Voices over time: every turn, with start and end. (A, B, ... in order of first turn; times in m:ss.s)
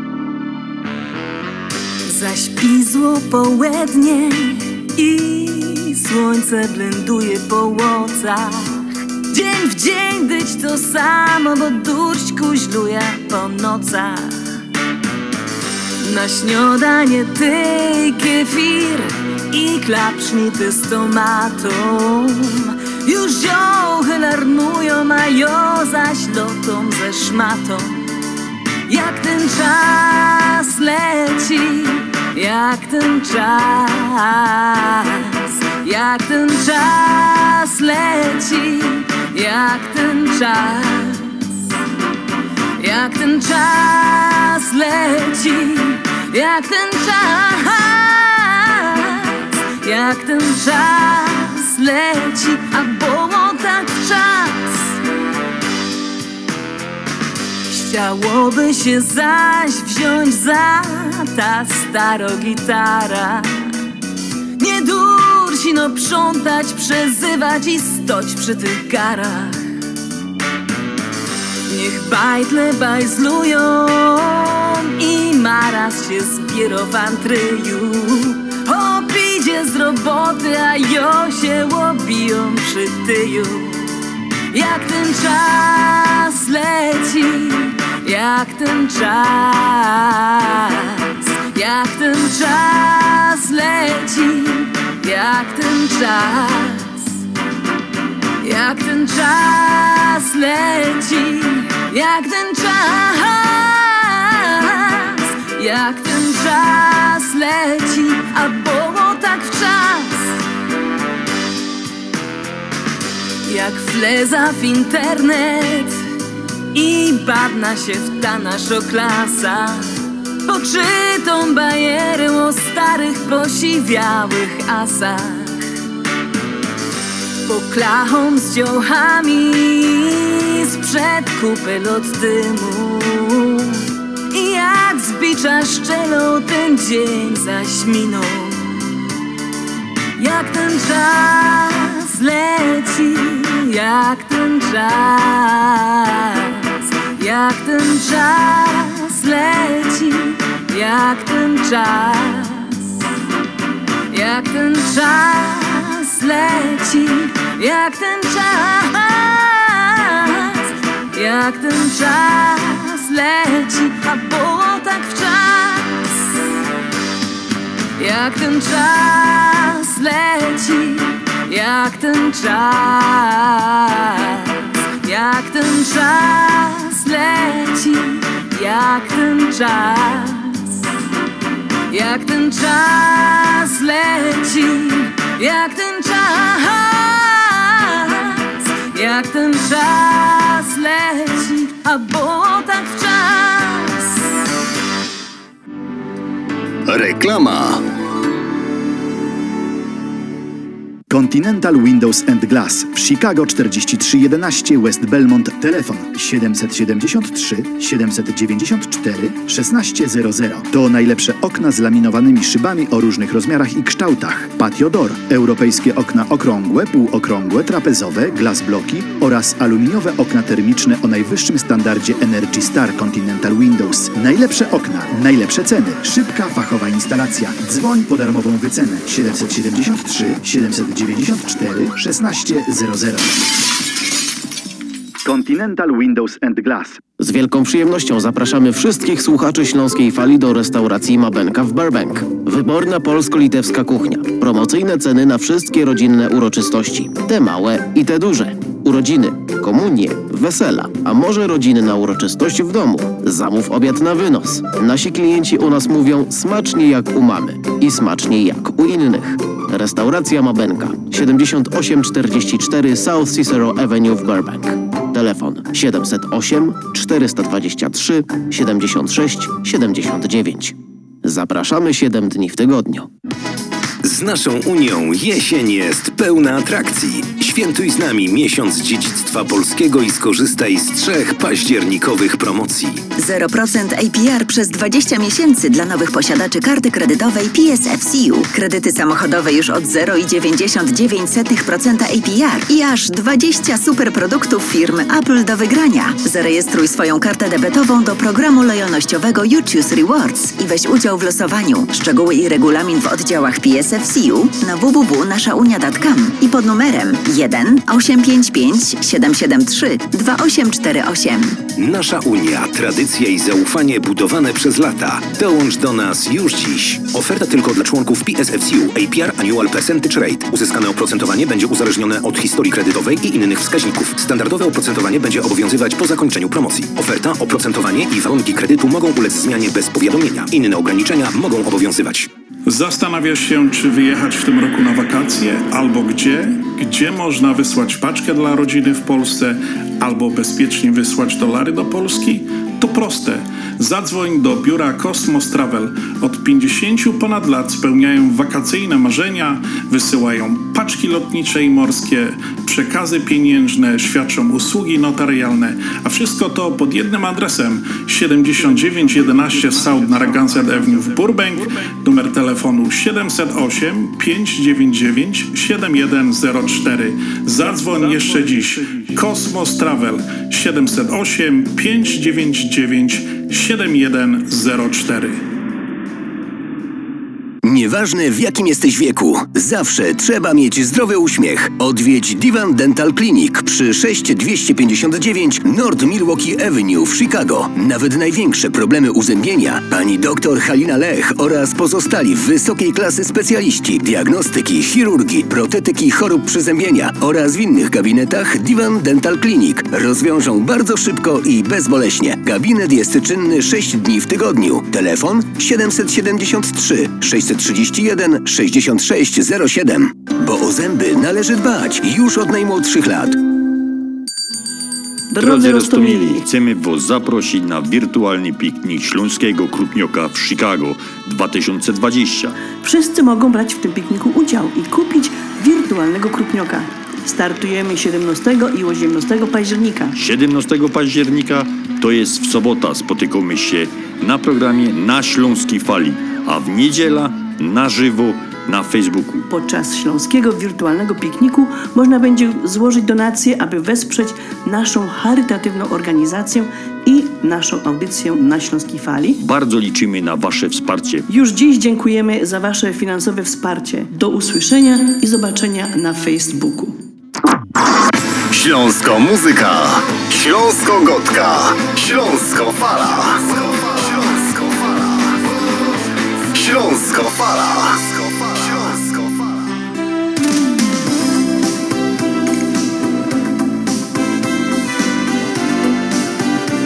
0:02.1-0:14.4 A
0:16.0-0:28.0 A
0:28.9-0:41.7 A
0:42.8-0:55.0 A
0:57.7-1:03.7 A
1:04.6-1:09.6 A
1:11.7-1:23.9 A
1:24.5-1:37.2 A
1:38.4-1:50.4 A
1:53.5-1:56.0 A
1:56.7-1:59.9 A
2:00.5-2:05.6 A
2:07.5-2:18.8 A
2:20.2-2:33.0 A
2:34.1-2:46.4 A
2:48.0-3:00.8 A
3:01.9-3:14.2 A
3:16.9-3:17.8 B
3:21.1-3:53.3 C
3:55.3-3:57.0 C
3:57.2-4:33.1 D
4:34.0-4:43.0 E
4:43.2-5:11.6 F
5:11.8-5:32.3 E
5:32.7-6:15.4 G
6:17.6-6:53.4 H
6:55.3-6:56.4 I
6:55.4-7:02.5 J
7:02.8-7:10.2 I
7:10.2-7:19.5 J
7:19.5-7:29.4 I
7:29.4-7:31.3 J
7:31.3-7:37.0 I
7:38.5-7:45.0 B
7:46.5-7:49.5 B